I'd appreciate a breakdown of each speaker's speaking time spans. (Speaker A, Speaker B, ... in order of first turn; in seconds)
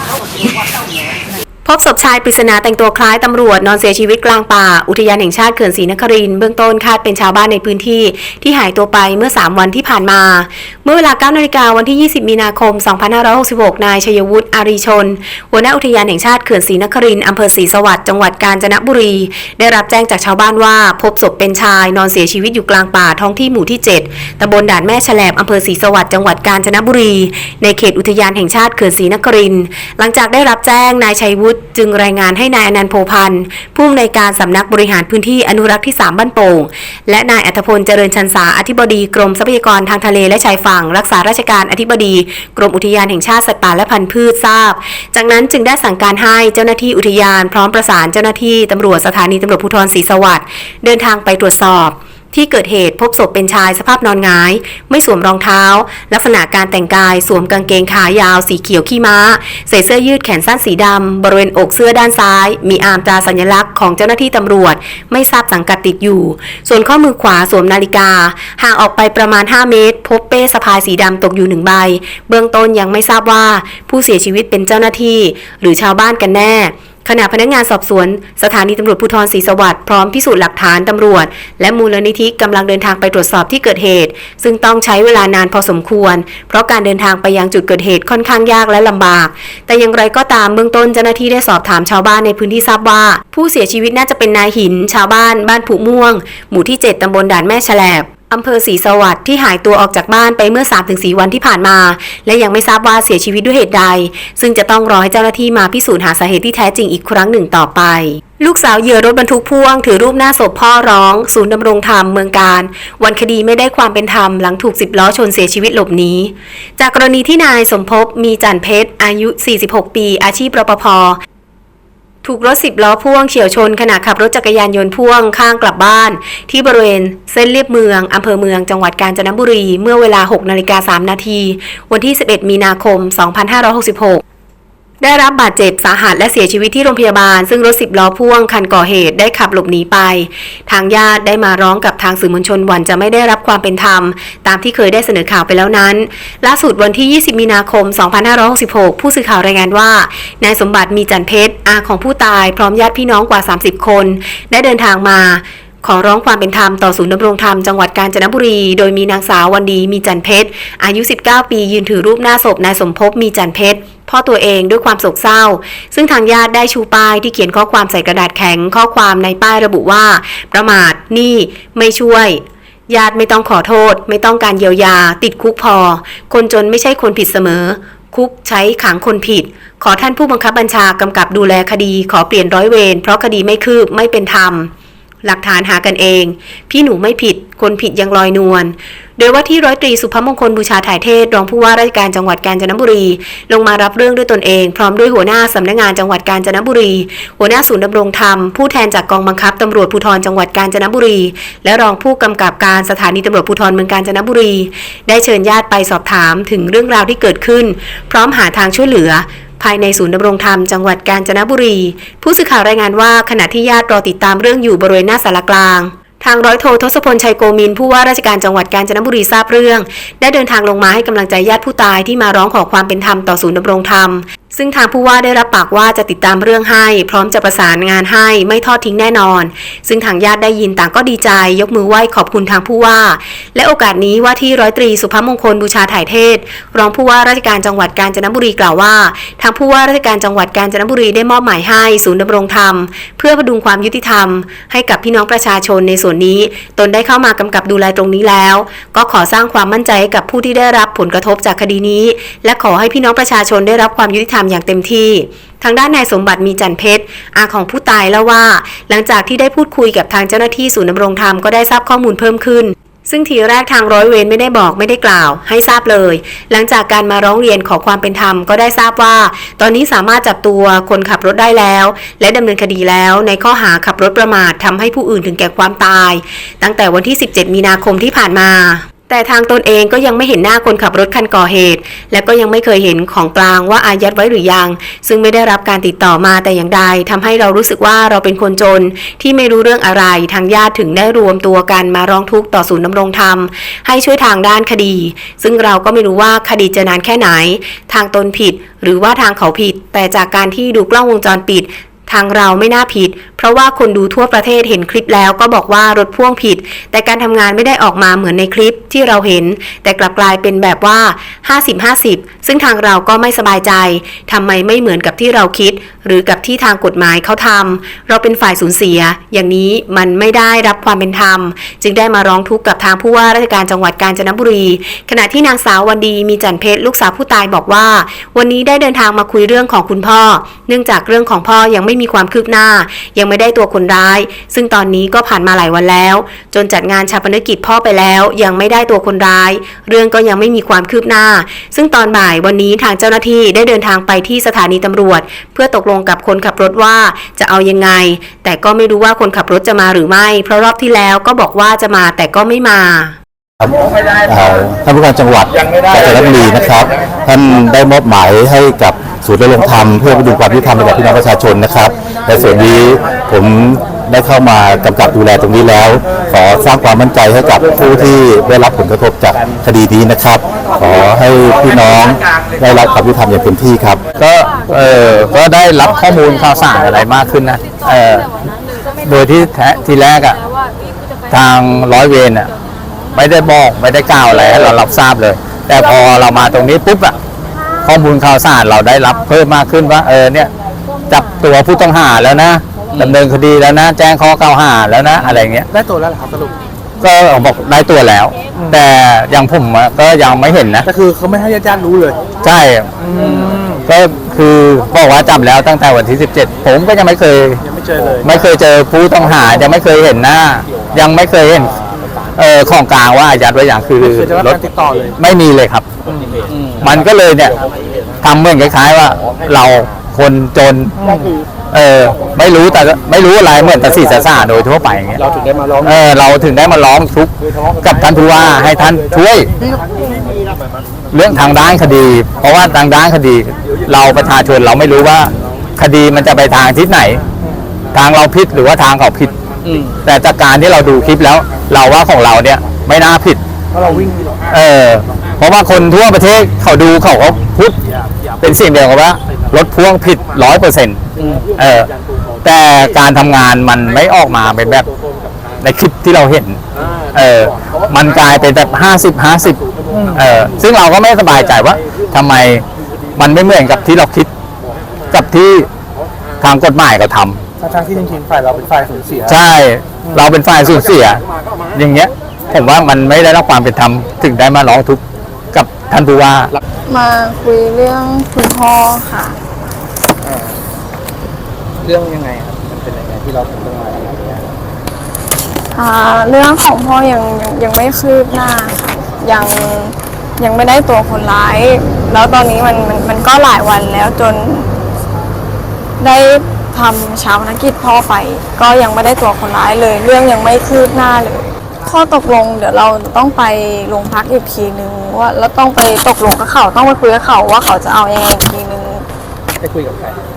Speaker A: 1.6-121.2, 122.2-134.2, 135.0-184.7, 185.2-353.1
Speaker B: 353.6-374.1
Speaker C: 374.1-378.3, 379.0-380.4, 381.3-382.5, 383.1-387.1, 387.8-390.5, 391.1-395.7, 397.0-400.9, 402.4-402.9, 403.9-407.6, 408.2-411.7, 412.4-414.6, 415.2-415.9, 416.8-417.5, 418.2-420.9, 421.7-425.2, 425.8-429.5, 431.1-437.2, 437.9-439.3, 440.0-443.4, 444.5-447.8, 448.4-451.0, 451.6-451.9, 452.4-454.9, 455.6-456.6, 457.1-459.6, 460.1-462.6, 463.1-464.3, 465.1-465.7, 466.4-467.4, 469.3-471.2, 471.7-476.5
Speaker D: 395.2-396.5, 400.8-402.2, 403.0-403.8, 407.7-408.2, 414.0-415.2, 416.0-417.0, 421.0-421.3, 425.2-425.9, 439.6-440.0, 443.7-444.3, 451.2-451.4, 459.9-460.2, 467.6-469.4, 480.2-480.6, 481.8-484.5, 509.6-510.2
Speaker E: 476.9-479.4, 485.7-494.7, 496.0-509.1